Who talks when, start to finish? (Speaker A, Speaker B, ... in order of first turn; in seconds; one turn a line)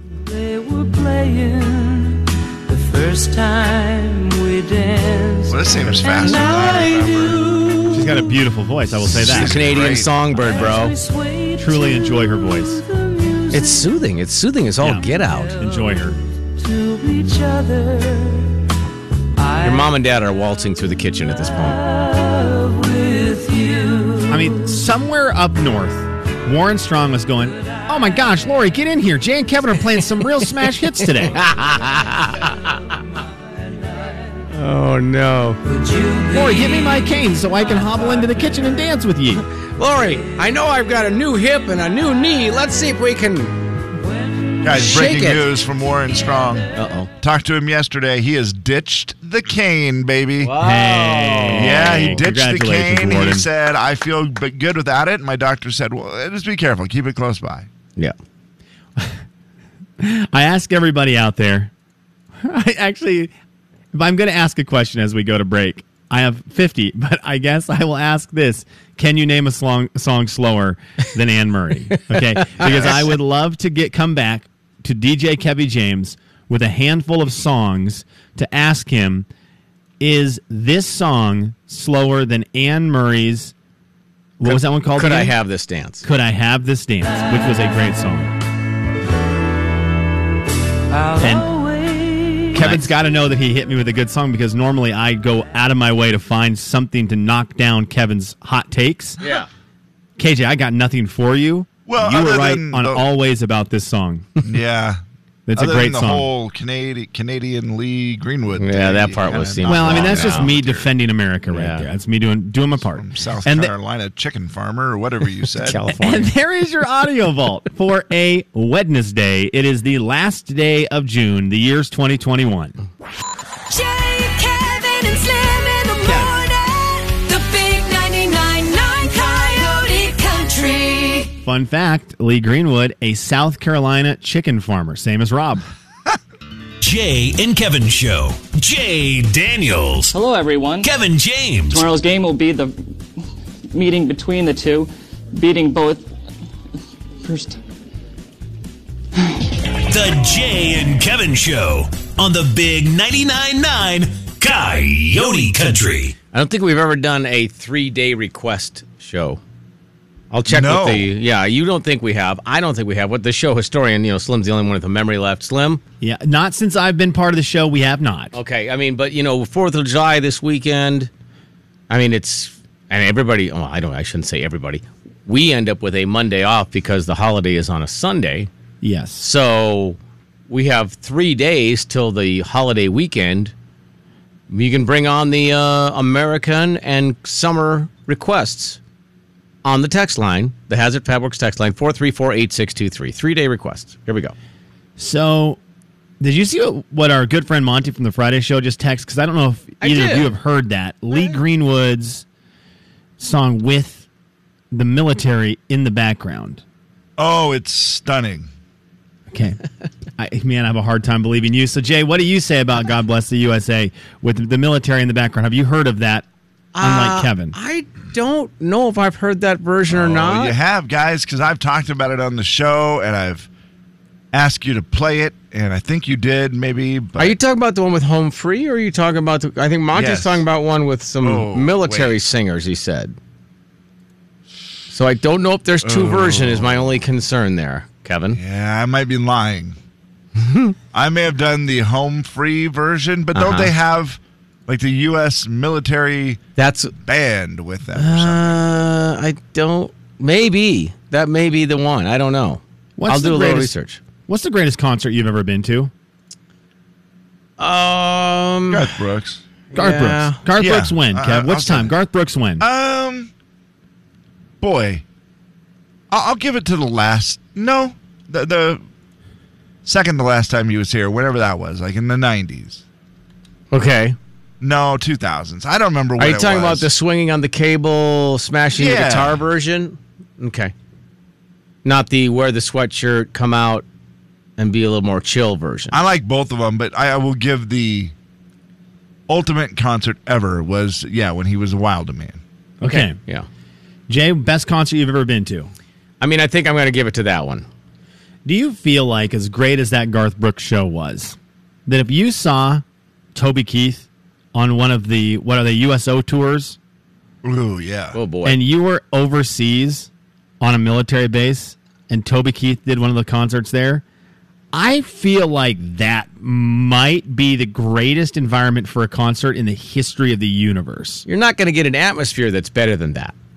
Speaker A: 0.2-8.3
Speaker B: 5.5-7.4
Speaker C: 7.9-9.5
Speaker B: 9.0-10.7
Speaker D: 9.1-11.0
Speaker A: 10.3-13.9
Speaker C: 11.6-12.8
Speaker D: 13.5-15.6
Speaker A: 15.2-18.5
Speaker C: 15.6-16.2
Speaker A: 19.4-19.9
Speaker D: 19.6-21.8
Speaker A: 21.7-24.8
Speaker C: 24.3-31.4
Speaker D: 31.2-33.0
Speaker D: 34.5-35.6
Speaker A: 35.6-37.1
Speaker C: 36.3-39.4
Speaker D: 39.8-43.6
Speaker B: 44.6-46.7
Speaker D: 44.7-45.5
Speaker D: 46.7-47.1
Speaker B: 47.2-50.5
Speaker D: 50.4-52.2
Speaker C: 50.6-53.5
Speaker B: 51.5-57.7
Speaker C: 60.0-61.7
Speaker C: 62.4-63.3
Speaker C: 63.9-79.3
Speaker D: 72.5-73.1
Speaker C: 80.0-83.5
Speaker C: 84.4-85.3
Speaker D: 84.4-86.0
Speaker C: 86.0-88.3
Speaker A: 90.9-92.5
Speaker C: 91.2-91.5
Speaker C: 92.5-99.2
Speaker D: 92.6-92.9
Speaker D: 99.2-99.5
Speaker C: 100.2-104.2
Speaker B: 101.8-103.0
Speaker B: 104.4-105.0
Speaker C: 105.5-106.3
Speaker B: 105.5-110.9
Speaker D: 108.6-110.5
Speaker C: 109.7-113.7
Speaker D: 111.5-111.9
Speaker B: 112.8-115.8
Speaker D: 115.6-116.3
Speaker C: 115.9-122.8
Speaker A: 123.7-131.3
Speaker C: 126.0-126.3
Speaker C: 131.4-135.7
Speaker E: 136.8-140.2
Speaker F: 140.1-140.9
Speaker E: 140.8-141.9
Speaker F: 141.7-142.7
Speaker F: 143.7-146.0
Speaker F: 147.2-147.6
Speaker E: 149.9-156.1
Speaker D: 156.3-159.4
Speaker D: 160.3-165.8
Speaker B: 160.4-161.1
Speaker C: 166.0-168.3
Speaker D: 168.3-171.1
Speaker D: 171.9-178.5
Speaker C: 178.8-179.2
Speaker D: 179.2-180.0
Speaker D: 180.5-183.5
Speaker D: 184.5-188.8
Speaker D: 189.6-194.3
Speaker C: 195.0-195.6
Speaker C: 196.2-202.2
Speaker D: 199.8-200.3
Speaker C: 203.2-204.1
Speaker C: 204.7-206.6
Speaker B: 207.2-208.5
Speaker C: 209.3-209.6
Speaker C: 210.2-216.2
Speaker D: 216.7-220.6
Speaker C: 216.8-217.5
Speaker B: 219.9-223.5
Speaker B: 224.3-227.4
Speaker D: 227.2-233.1
Speaker B: 229.9-230.4
Speaker B: 231.2-232.2
Speaker D: 234.9-238.4
Speaker B: 235.8-237.0
Speaker B: 238.3-239.8
Speaker D: 240.3-240.7
Speaker B: 240.9-246.4
Speaker D: 243.3-243.7
Speaker D: 246.6-246.9
Speaker B: 246.9-248.6
Speaker D: 247.9-254.0
Speaker C: 253.0-253.7
Speaker C: 254.3-255.9
Speaker D: 257.6-258.9
Speaker B: 258.7-259.4
Speaker D: 259.7-260.4
Speaker C: 259.7-262.6
Speaker B: 260.6-261.9
Speaker B: 262.6-263.3
Speaker B: 264.6-265.0
Speaker B: 266.1-268.8
Speaker B: 269.8-272.8
Speaker D: 273.7-274.2
Speaker B: 274.6-276.9
Speaker D: 276.2-280.7
Speaker B: 278.7-279.4
Speaker D: 281.8-283.8
Speaker D: 284.6-285.9
Speaker B: 285.9-288.1
Speaker B: 289.3-292.4
Speaker C: 292.8-293.2
Speaker D: 292.8-293.5
Speaker C: 294.1-295.7
Speaker D: 296.2-297.7
Speaker C: 298.4-302.8
Speaker C: 303.3-306.8
Speaker B: 307.4-308.2
Speaker D: 308.1-308.6
Speaker C: 308.4-310.1
Speaker C: 310.6-314.0
Speaker C: 314.7-321.2
Speaker D: 321.2-323.3